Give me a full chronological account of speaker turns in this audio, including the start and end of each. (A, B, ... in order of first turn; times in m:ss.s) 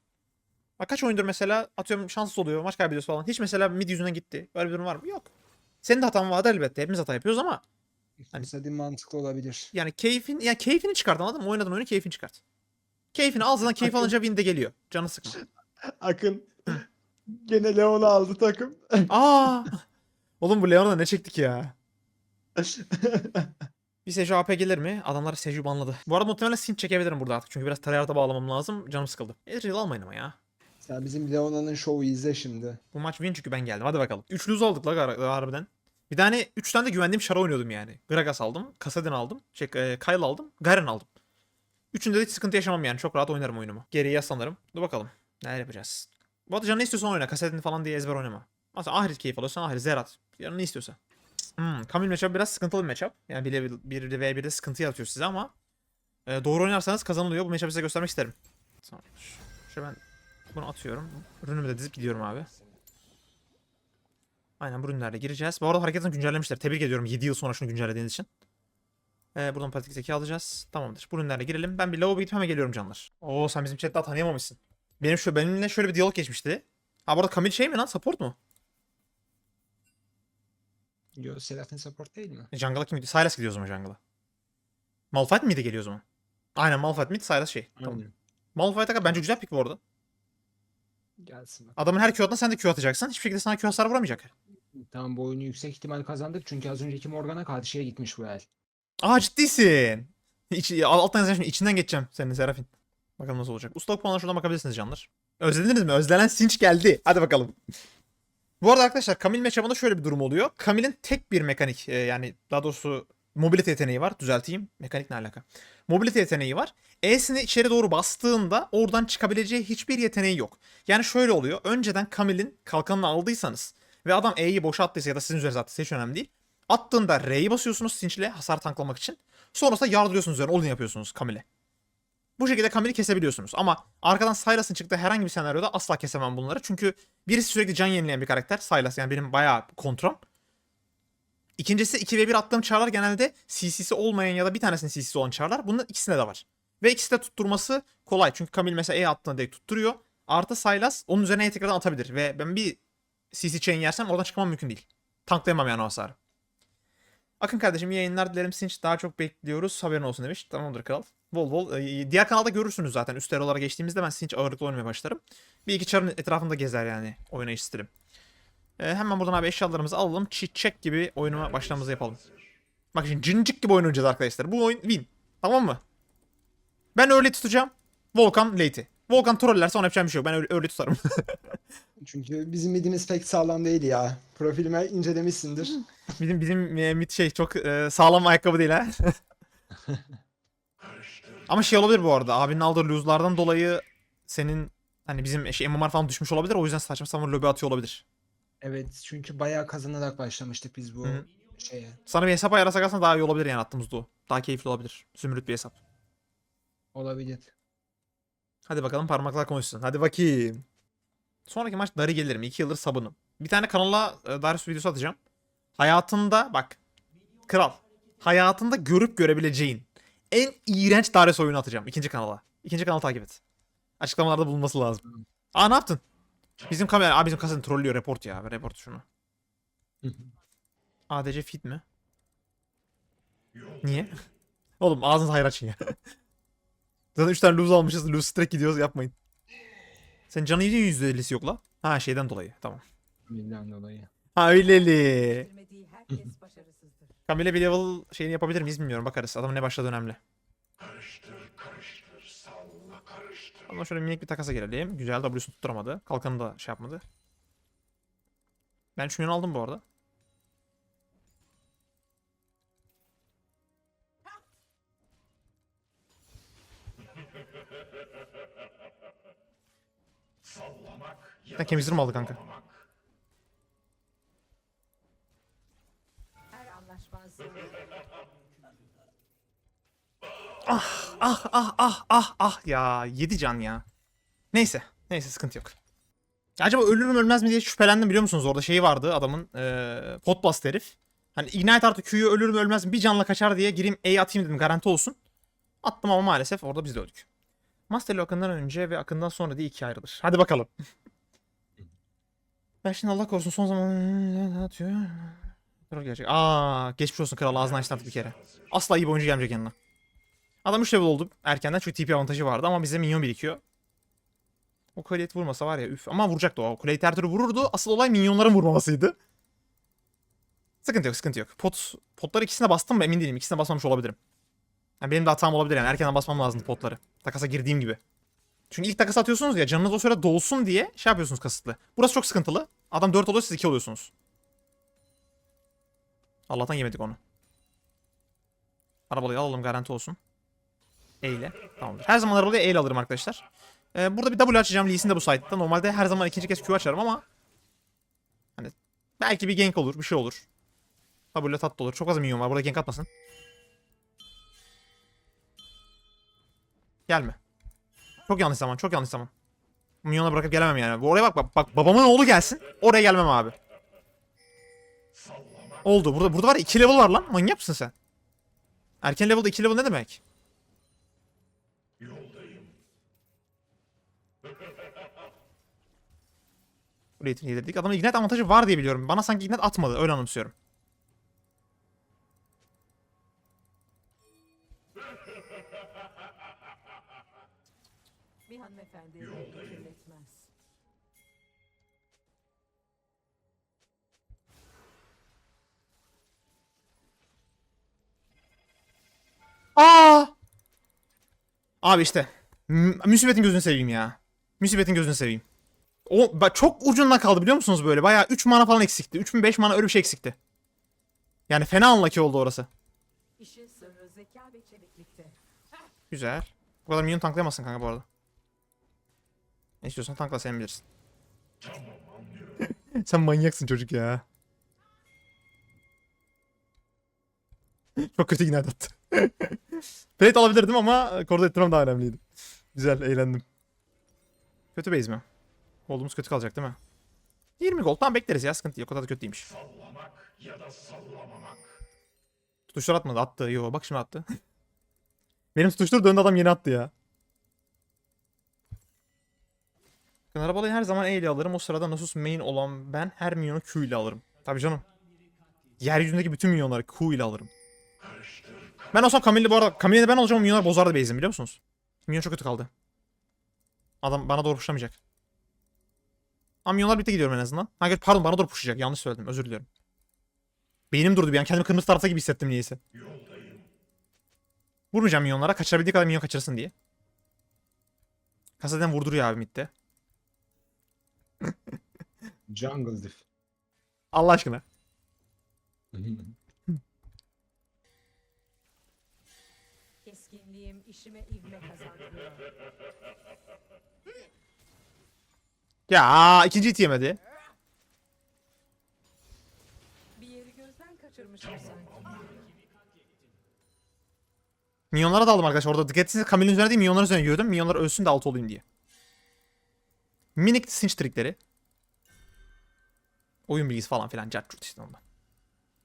0:00.8-0:05.3 A
0:05.8-0:07.6 A
0:08.2-0:09.7 B
0:09.7-0:12.4 A
0:13.1-0:15.4 A
0:13.8-0:14.1 B
0:15.4-0:19.1 B
0:19.1-0:19.8 A
0:20.4-0:21.7 A
0:22.6-0:23.6 B
0:24.0-0:30.4 A
0:30.8-0:32.8 B
0:32.9-0:41.1 A
0:41.9-0:51.0 A
0:51.6-0:55.5 A
0:56.2-1:00.0 A
1:00.5-1:02.5 A
1:04.6-1:08.3 A
1:09.3-1:18.4 A
1:21.1-1:22.5 B
1:22.5-1:24.0 A
1:25.1-1:26.0 A
1:26.6-1:28.0 A
1:27.8-1:28.1 B
1:28.5-1:29.8 A
1:31.2-1:31.8 B
1:31.8-1:34.3 A
1:34.7-1:38.5 B
1:39.0-1:42.7 A
1:43.2-1:47.6 A
1:48.6-2:11.4 A
2:12.4-2:20.2 A
2:21.6-2:32.8 A
2:33.3-2:36.2 A
2:37.4-2:47.9 A
2:48.8-2:52.2 A
2:52.9-2:55.8 A
2:56.9-3:01.6 A
3:02.0-3:05.8 B
3:06.2-3:09.2 A
3:09.8-3:10.1 B
3:11.5-3:18.0 A
3:18.6-3:22.0 B
3:22.1-3:25.8 A
3:26.9-3:27.5 B
3:28.7-3:30.6 A
3:31.5-3:35.2 A
3:35.8-3:36.8 A
3:37.5-3:43.4 A
3:44.0-3:45.0 A
3:45.5-3:46.0 A
3:46.7-3:49.0 A
3:50.0-3:50.3 B
3:51.1-3:51.8 A
3:53.8-3:54.1 A
3:54.8-3:56.0 A
3:57.1-3:59.1 A
4:00.3-4:02.8 A
4:03.3-4:04.1 B
4:04.3-4:05.5 A
4:04.5-4:07.2 C
4:07.3-4:10.2 A
4:13.7-4:17.0 A
4:19.0-4:19.8 A
4:31.6-4:32.4 A
4:36.5-4:37.8 C
4:40.6-4:43.8 A
4:44.5-4:45.7 A
4:46.6-4:55.2 A
4:55.8-4:57.2 A
4:57.9-5:00.7 A
5:02.8-5:09.7 A
5:10.6-5:13.6 A
5:15.0-5:19.2 A
5:20.8-5:24.2 A
5:25.0-5:28.0 A
5:28.7-5:34.1 A
5:36.5-5:37.2 A
5:39.1-5:40.2 A
5:41.2-5:47.2 A
5:48.6-5:50.4 A
5:51.3-5:53.1 A
5:57.1-5:57.4 A
5:58.3-5:59.3 A
6:00.0-6:03.5 A
6:05.8-6:07.9 A
6:09.0-6:10.2 A
6:17.2-6:20.5 A
6:28.5-6:30.5 C
6:39.8-6:40.3 A
6:41.8-6:45.4 A
6:46.0-6:50.4 A
6:51.5-6:52.7 A
6:53.4-6:55.4 C
6:56.1-6:58.0 A
6:59.8-7:00.8 A
7:02.6-7:04.2 A
7:08.0-7:09.6 A
7:10.2-7:12.2 A
7:12.7-7:13.4 A
7:14.7-7:15.2 A
7:15.9-7:16.8 A
7:17.6-7:19.5 A
7:22.7-7:24.2 A
7:25.5-7:26.9 A
7:30.3-7:34.8 A
7:35.8-7:37.5 A
7:38.9-7:42.7 A
7:44.0-7:45.0 A
7:46.6-7:49.7 A
7:50.9-7:52.8 A
7:54.9-7:56.7 A
7:58.6-7:59.7 A
8:02.5-8:03.2 B
8:04.1-8:04.6 A
8:05.9-8:06.3 B
8:10.0-8:12.5 C
8:15.9-8:17.2 A
8:20.2-8:22.4 C
8:24.9-8:28.6 A
8:30.4-8:31.4 A
8:33.5-8:35.0 A